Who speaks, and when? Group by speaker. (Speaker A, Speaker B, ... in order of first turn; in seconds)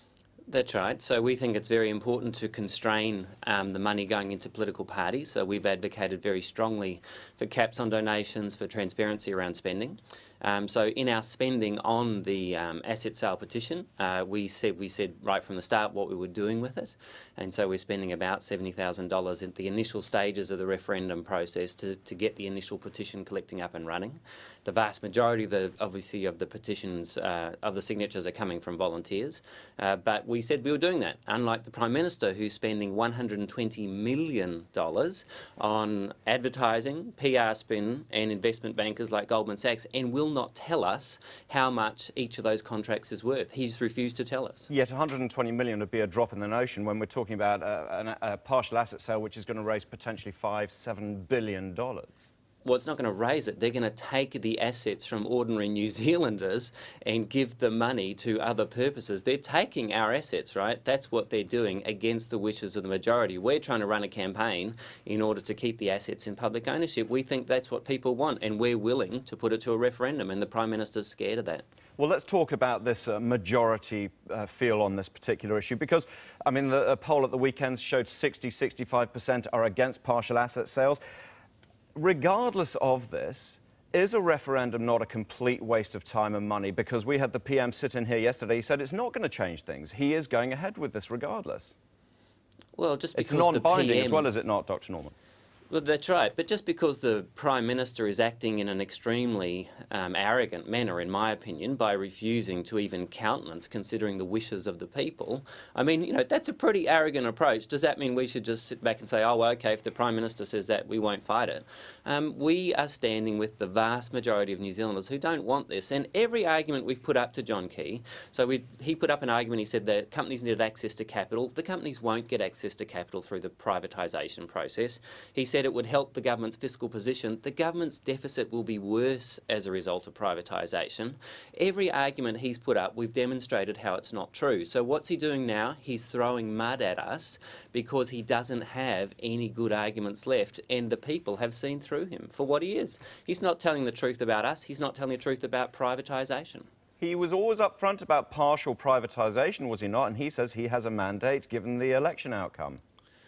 Speaker A: 0.5-44.7, 52.6-71.6, 92.8-94.3, 95.7-146.7
Speaker B: 44.7-52.2, 72.0-81.0, 81.9-91.7, 93.1-95.1, 147.0-152.8